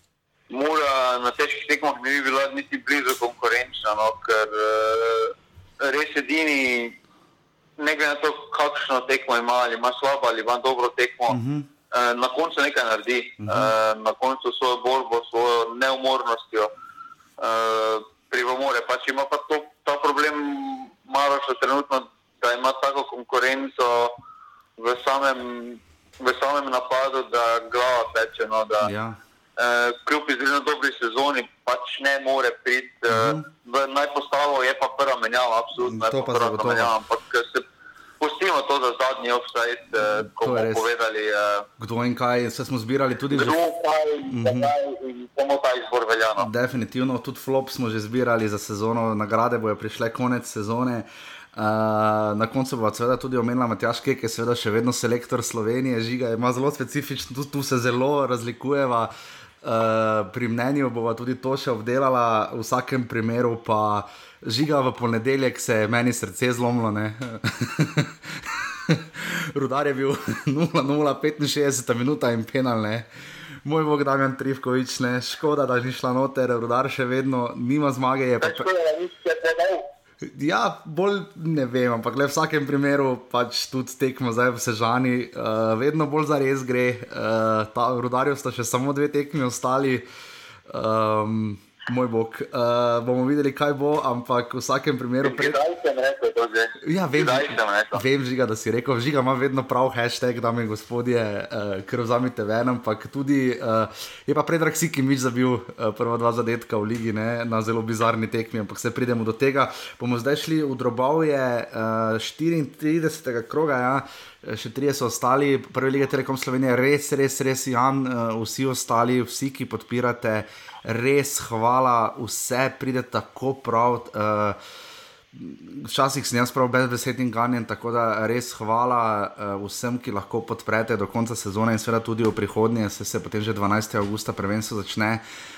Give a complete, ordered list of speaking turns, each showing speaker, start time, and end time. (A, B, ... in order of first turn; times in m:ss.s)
0:00.5-0:07.0 A
0:07.8-0:11.4 A
0:11.3-0:11.7 B
0:11.9-0:16.7 A
0:13.4-0:13.7 B
0:17.4-0:24.2 A
0:24.8-0:28.9 A
0:28.8-0:29.2 B
0:29.6-0:37.6 A
0:33.1-0:33.5 B
0:35.8-0:36.9 B
0:38.2-0:41.6 A
0:40.0-0:40.9 B
0:41.8-0:43.6 B
0:43.3-0:46.5 A
0:44.3-0:44.7 B
0:46.4-1:13.1 B
1:13.6-1:18.7 B
1:18.4-1:19.9 A
1:20.2-1:30.0 B
1:30.7-1:35.6 B
1:35.2-1:38.0 A
1:36.8-2:04.6 B
2:05.3-2:15.2 B